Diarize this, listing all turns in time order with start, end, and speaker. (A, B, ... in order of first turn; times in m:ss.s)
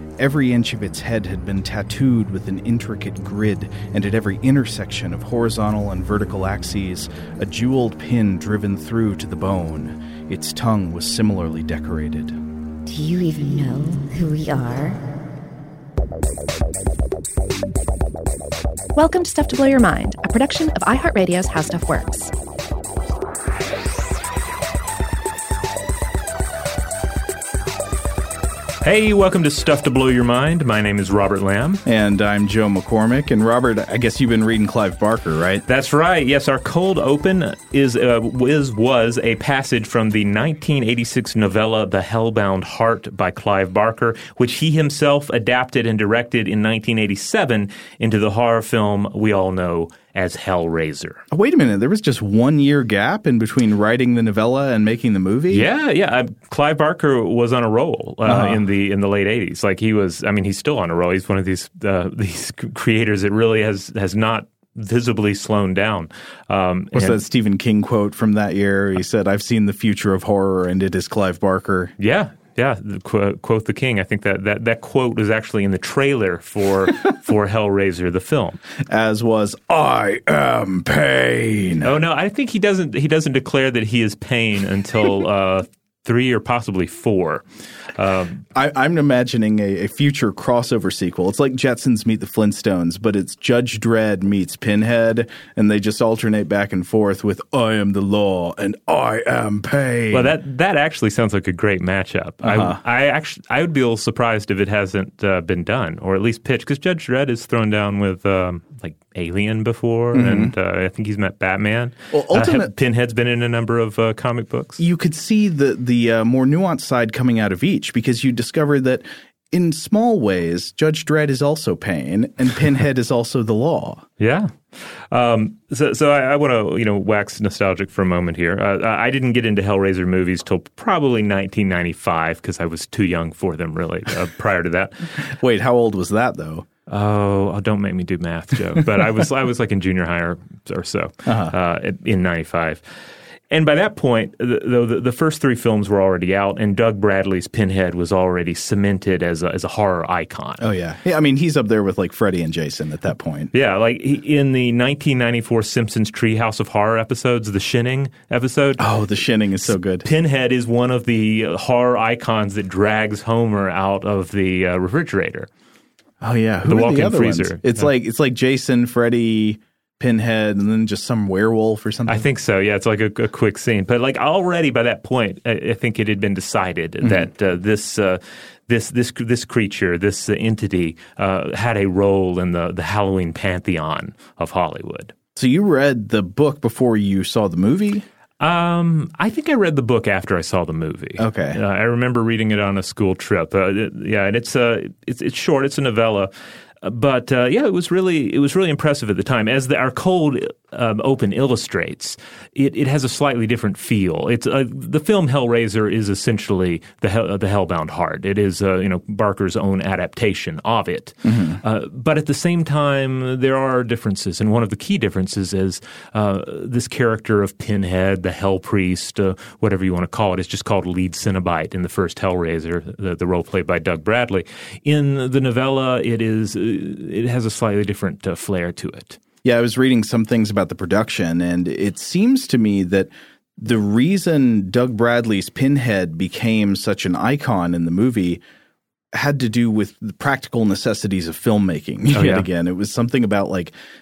0:00.2-0:12.4 A
0:12.8-0:15.0 B
0:18.9-0:22.3 C
0:28.8-0:31.8 D
0:31.8-0:35.6 A
0:35.6-0:51.2 D
0:51.3-0:55.6 A
0:55.5-1:07.2 D
0:58.2-0:58.6 A
1:06.9-1:11.9 A
1:12.0-1:18.6 D
1:18.8-1:21.9 A
1:21.8-1:28.4 D
1:28.5-1:40.3 A
1:40.1-1:54.8 D
1:42.4-1:42.8 A
1:50.1-1:50.5 A
1:52.1-1:52.7 A
1:54.8-2:04.0 A
2:04.2-2:15.1 D
2:15.2-2:16.6 A
2:16.9-2:22.8 D
2:21.2-2:21.5 A
2:23.5-2:30.7 D
2:30.6-2:33.5 A
2:33.5-2:38.8 D
2:38.8-2:40.1 A
2:40.0-2:45.5 D
2:46.2-2:52.2 A
2:46.7-2:47.9 D
2:52.1-3:05.1 D
2:57.0-2:57.3 A
3:05.3-3:08.0 A
3:08.4-3:16.3 D
3:11.2-3:11.6 A
3:16.8-3:49.2 D
3:31.2-3:31.6 A
3:49.4-3:58.4 A
3:59.1-4:03.7 A
4:02.1-4:02.4 D